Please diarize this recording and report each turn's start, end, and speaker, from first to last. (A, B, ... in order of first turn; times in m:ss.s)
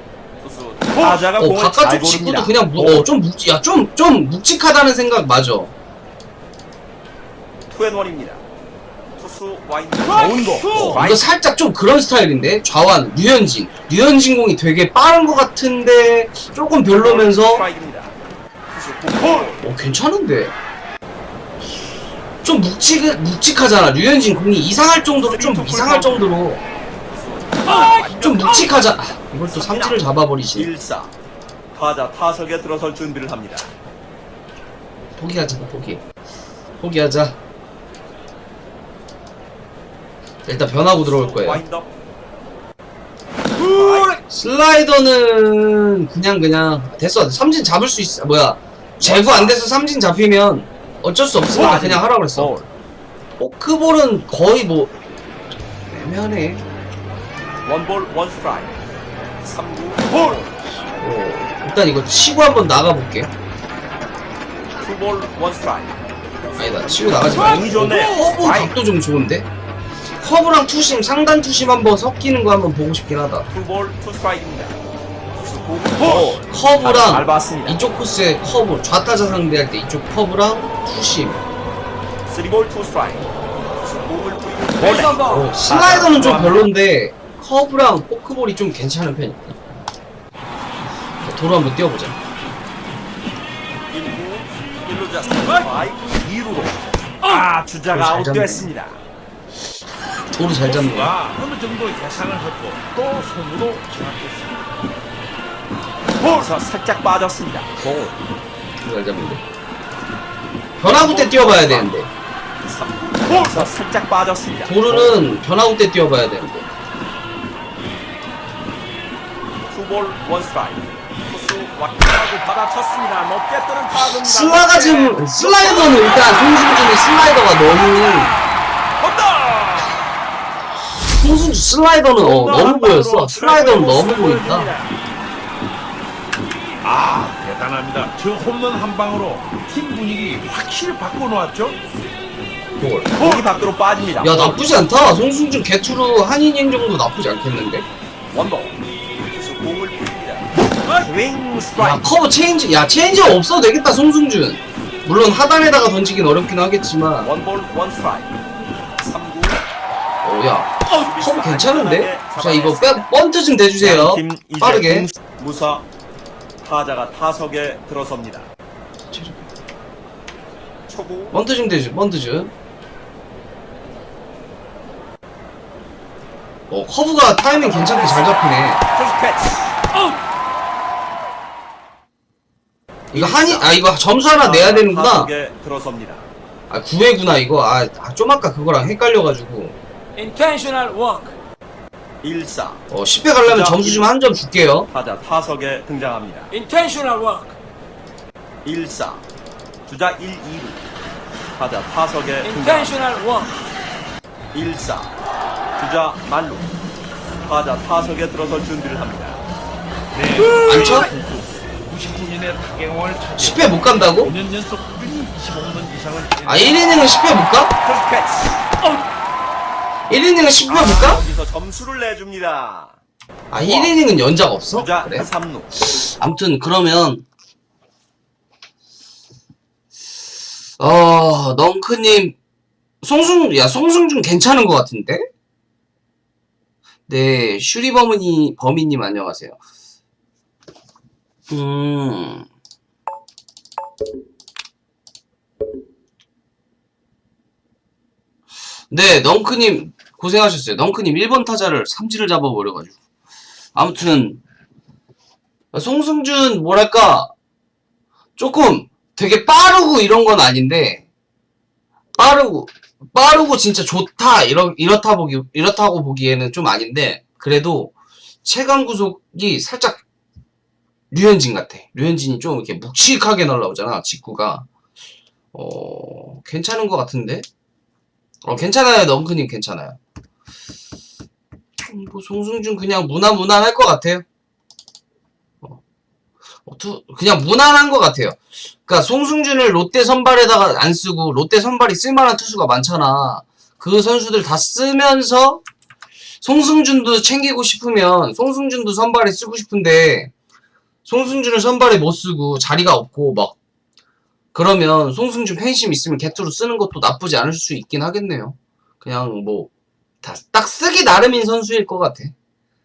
0:00.4-0:03.1 A
0:01.4-0:05.7 B
0:07.7-0:08.4 A
0:09.2-0:11.3 A
0:10.7-0:17.6 B
0:16.9-0:18.2 A
0:18.7-0:19.6 A
0:19.6-0:20.6 B
0:22.4-0:26.6 B
0:25.2-0:26.3 A
0:27.0-0:31.1 A
0:28.1-0:30.7 B
0:31.7-0:33.7 A
0:35.2-0:36.0 B
0:36.8-0:37.4 B
0:40.5-0:41.6 B
0:41.0-0:41.9 A
0:43.6-0:44.2 A
0:44.2-0:52.6 B
0:49.0-0:49.6 A
0:51.5-0:52.7 A
0:53.4-0:54.9 B
0:55.8-0:56.6 B
0:57.6-0:58.8 A
0:59.4-1:00.6 A
1:01.0-1:03.3 B
1:04.8-1:08.8 A
1:06.6-1:09.5 B
1:10.2-1:13.5 B
1:13.5-1:14.8 A
1:15.3-1:17.8 A
1:16.0-1:21.4 B
1:22.3-1:26.6 A
1:25.0-1:29.6 B
1:31.2-1:32.2 B
1:33.9-1:39.0 A
1:37.9-1:38.7 B
1:40.3-1:41.2 B
1:40.6-1:44.7 C
1:46.2-1:48.2 A
1:48.8-1:49.4 B
1:50.8-1:52.1 B
1:50.9-1:52.0 A
1:52.6-1:55.2 A
1:54.7-1:56.7 B
1:59.7-2:06.3 A
2:04.0-2:08.3 B
2:09.0-2:10.0 C
2:11.2-2:14.7 B
2:12.2-2:14.9 A
2:16.8-2:21.8 C
2:22.8-2:23.1 B
2:23.1-2:24.6 A
2:24.2-2:27.8 B
2:28.3-2:32.1 A
2:31.8-2:37.3 B
2:37.2-2:38.4 A
2:39.0-2:39.6 A
2:40.2-2:45.1 B
2:40.9-2:43.1 A
2:43.8-2:45.9 A
2:46.6-2:48.5 A
2:49.1-2:49.5 B
2:50.9-2:51.4 A
2:51.3-2:52.5 B
2:56.7-2:58.8 B
2:57.5-2:59.8 A
3:03.1-3:05.3 B
3:03.1-3:03.8 A
3:04.4-3:06.3 A
3:06.7-3:09.8 B
3:10.2-3:11.3 D
3:12.2-3:12.8 A
3:12.9-3:14.9 B
3:13.4-3:14.1 A
3:14.9-3:16.6 A
3:16.5-3:17.6 D
3:18.6-3:19.2 A
3:19.9-3:20.8 A
3:21.6-3:23.1 A
3:22.4-3:23.5 D
3:24.5-3:25.2 A
3:25.8-3:26.7 A
3:27.4-3:29.4 A
3:30.1-3:37.2 C
3:30.6-3:31.1 B
3:33.4-3:34.3 B
3:36.4-3:37.7 B
3:37.8-3:38.7 A
3:40.1-3:41.2 B
3:40.7-3:43.0 A
3:43.5-3:47.3 B
3:43.6-3:44.0 A
3:44.7-3:45.7 A
3:50.8-3:52.4 B
3:53.0-3:55.2 B
3:57.1-3:59.6 B
4:01.5-4:02.5 B
4:08.9-4:13.0 B
4:13.8-4:14.4 B
4:15.7-4:17.3 B
4:18.4-4:21.0 B
4:22.2-4:27.9 B
4:28.4-4:30.0 B
4:31.1-4:34.7 B
4:35.5-4:37.4 B
4:38.4-4:40.0 B
4:41.8-4:44.2 B
4:46.6-4:55.6 B
4:56.4-5:00.3 B
5:01.0-5:03.6 B
5:04.5-5:09.7 B
5:10.2-5:12.3 B